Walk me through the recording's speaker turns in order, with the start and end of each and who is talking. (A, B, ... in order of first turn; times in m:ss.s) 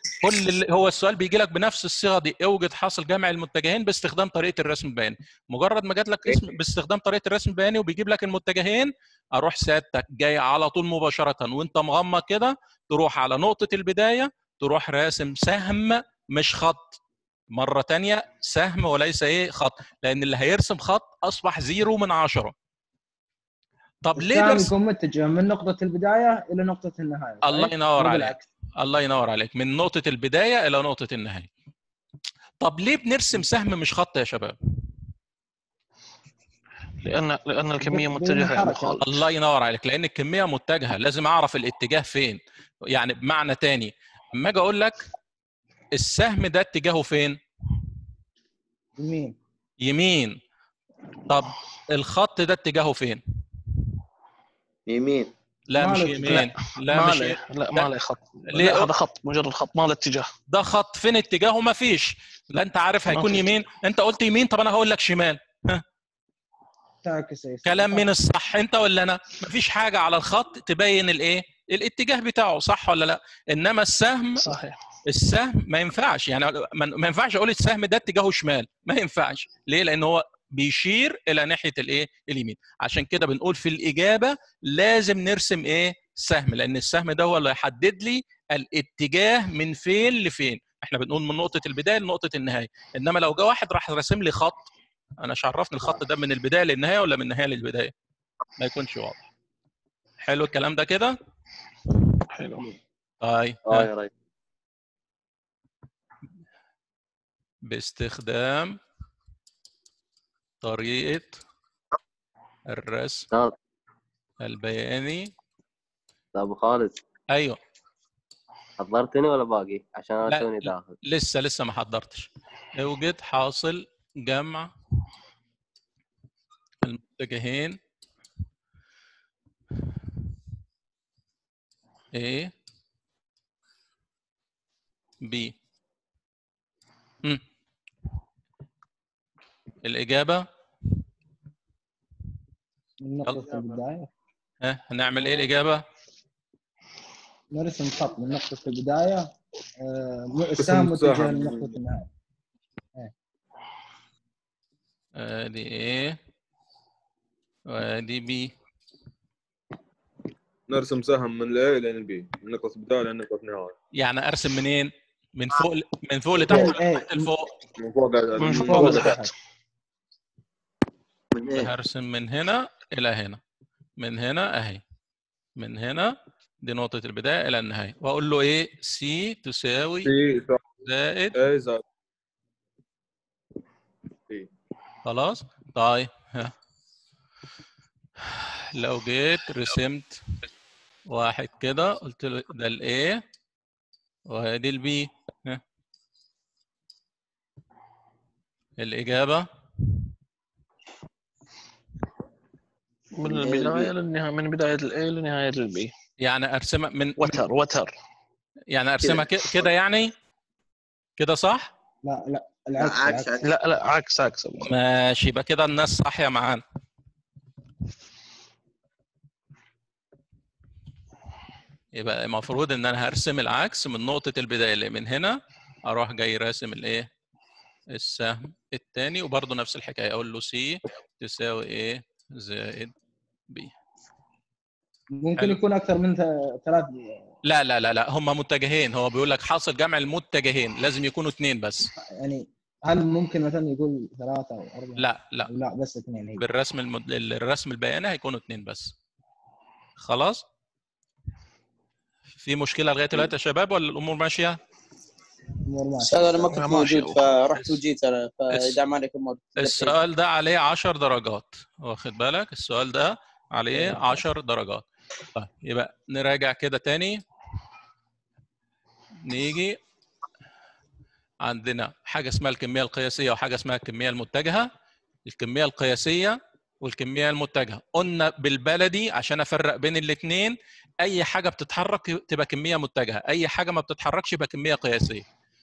0:00.2-0:17.0 A
0:17.5-0:22.5 A
0:24.0-0:24.7 A
0:24.2-0:28.4 B
0:27.4-0:31.5 A
0:32.6-0:34.6 A
0:37.0-0:39.2 C
0:37.8-0:39.0 B
0:39.0-0:45.0 A
0:45.9-0:47.4 A
0:49.0-0:49.4 B
0:49.8-0:50.4 A
0:51.2-0:53.2 A
0:54.9-0:55.3 D
0:55.7-0:57.9 A
0:55.7-0:56.5 B
0:56.3-1:00.3 C
0:58.5-0:58.9 A
1:00.5-1:05.8 A
1:03.1-1:03.5 C
1:07.0-1:08.1 B
1:07.6-1:14.5 A
1:14.4-1:14.8 C
1:15.1-1:37.9 A
1:38.6-1:39.2 A
1:40.2-1:41.1 A
1:42.3-1:42.8 C
1:43.2-1:43.9 A
1:43.6-1:44.1 E
1:47.7-1:48.8 A
1:50.6-1:51.4 A
1:52.7-1:53.2 A
1:54.4-1:55.3 A
1:56.3-1:57.0 E
1:57.3-1:57.6 A
1:58.8-2:01.0 E
2:00.3-2:04.7 A
2:06.8-2:07.8 A
2:12.1-2:12.5 A
2:15.2-2:15.5 A
2:19.8-2:20.5 A
2:23.0-2:24.1 B
2:24.6-2:25.8 A
2:27.5-2:32.1 B
2:30.6-2:31.7 F
2:35.2-2:36.2 A
2:37.7-2:38.5 A
2:40.7-2:43.7 F
2:43.9-2:47.5 A
2:46.4-2:47.3 B
2:47.8-2:49.2 F
2:48.4-2:49.3 C
2:48.4-2:49.3 B
2:51.3-2:51.7 D
2:51.6-2:53.4 A
2:54.0-2:54.8 A
2:55.6-3:00.1 A
3:00.0-3:00.6 F
3:00.8-3:01.4 A
3:01.3-3:01.8 F
3:05.0-3:06.5 A
3:08.2-3:10.2 A
3:11.1-3:13.2 A
3:14.3-3:15.6 A
3:18.8-3:19.5 A
3:23.2-3:25.9 C
3:23.2-3:23.9 D
3:26.2-3:27.4 A
3:27.2-3:27.9 C
3:28.7-3:30.1 A
3:29.0-3:29.3 D
3:31.2-3:31.7 A
3:32.0-3:33.3 B
3:32.8-3:33.5 D
3:33.4-3:34.7 C
3:34.6-3:36.6 A
3:41.9-3:47.1 A
3:47.9-3:52.9 A
3:55.2-3:57.3 B
3:57.4-4:01.9 A
4:02.1-4:06.4 B
4:05.0-4:05.5 A
4:06.4-4:08.9 A
4:10.0-4:10.4 A
4:12.4-4:14.6 A
4:15.7-4:16.5 B
4:16.0-4:20.0 G
4:16.5-4:17.2 C
4:17.5-4:17.8 A
4:18.5-4:18.8 A
4:19.6-4:27.2 A
4:23.7-4:24.1 B
4:29.2-4:29.8 A
4:31.4-4:34.7 A
4:35.2-4:45.2 A